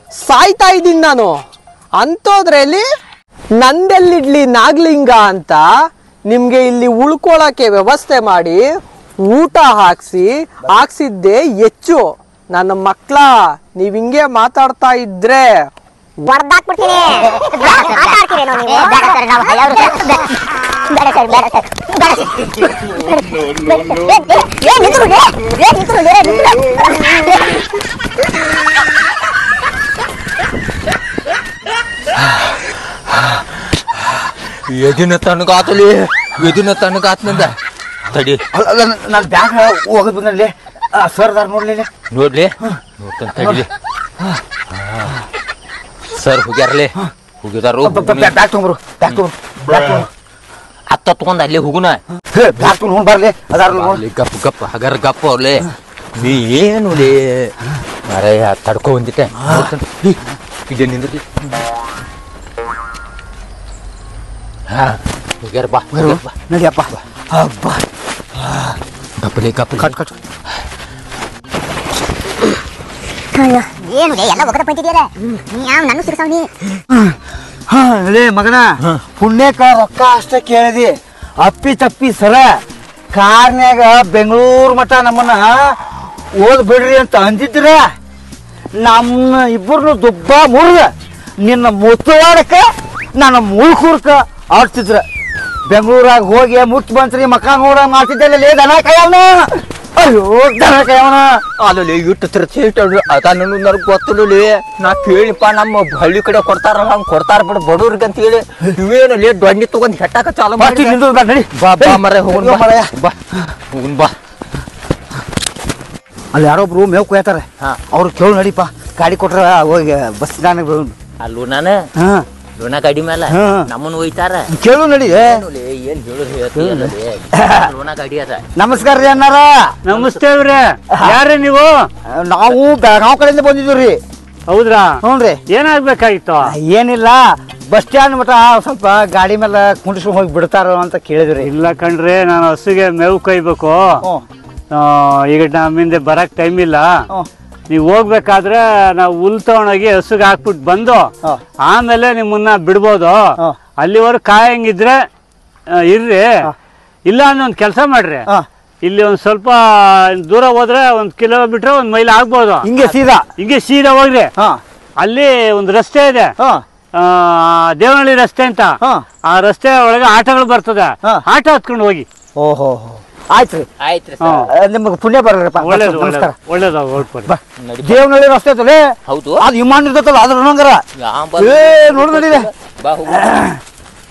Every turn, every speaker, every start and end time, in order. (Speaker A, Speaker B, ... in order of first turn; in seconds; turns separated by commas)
Speaker A: 0.2-1.4, Speaker A: 2.0-2.9, Speaker A: 3.6-5.7, Speaker A: 6.3-8.6, Speaker A: 9.3-15.5, Speaker B: 16.2-20.3, Speaker B: 20.9-27.3, Speaker C: 34.3-37.5, Speaker C: 38.1-38.4, Speaker D: 38.5-41.9, Speaker C: 42.1-43.7, Speaker C: 44.7-45.1, Speaker C: 46.1-48.3, Speaker D: 47.8-50.1, Speaker C: 49.1-50.0, Speaker C: 50.9-52.0, Speaker D: 52.3-54.0, Speaker C: 53.7-57.5, Speaker C: 58.1-60.1, Speaker D: 59.4-59.7, Speaker C: 60.7-61.2, Speaker C: 64.7-66.3, Speaker D: 65.9-67.8, Speaker D: 68.4-68.8, Speaker C: 69.2-70.0, Speaker D: 69.8-70.1, Speaker B: 73.3-76.5, Speaker D: 76.9-77.2, Speaker D: 77.7-82.6, Speaker D: 83.1-87.8, Speaker D: 88.8-90.9, Speaker D: 91.4-95.0, Speaker D: 95.7-101.4, Speaker C: 101.6-111.0, Speaker D: 110.6-112.9, Speaker C: 111.8-113.2, Speaker C: 113.7-114.1, Speaker D: 116.3-120.9, Speaker C: 121.2-121.8, Speaker D: 122.0-122.2, Speaker C: 122.6-124.5, Speaker D: 123.3-123.7, Speaker D: 124.5-125.4, Speaker C: 125.1-128.4, Speaker D: 126.5-127.6, Speaker D: 128.6-129.8, Speaker E: 129.8-131.9, Speaker C: 129.9-130.2, Speaker D: 130.9-131.2, Speaker D: 132.2-134.0, Speaker E: 134.5-135.0, Speaker D: 135.0-135.4, Speaker E: 135.5-136.5, Speaker D: 136.4-141.5, Speaker E: 141.4-144.0, Speaker E: 144.7-146.9, Speaker E: 147.7-151.1, Speaker E: 151.7-153.2, Speaker E: 153.8-155.1, Speaker E: 155.8-156.3, Speaker E: 157.1-158.2, Speaker E: 158.8-162.9, Speaker D: 162.6-163.2, Speaker E: 163.4-164.3, Speaker E: 165.0-166.3, Speaker E: 167.0-168.7, Speaker E: 169.3-172.1, Speaker D: 172.4-173.7, Speaker C: 173.8-174.4, Speaker E: 174.2-174.5, Speaker D: 174.5-176.3, Speaker E: 175.6-177.3, Speaker D: 177.2-178.8, Speaker C: 177.6-178.0, Speaker C: 179.1-179.4, Speaker D: 179.4-180.8, Speaker C: 181.0-183.3, Speaker D: 181.4-182.5, Speaker D: 183.1-183.6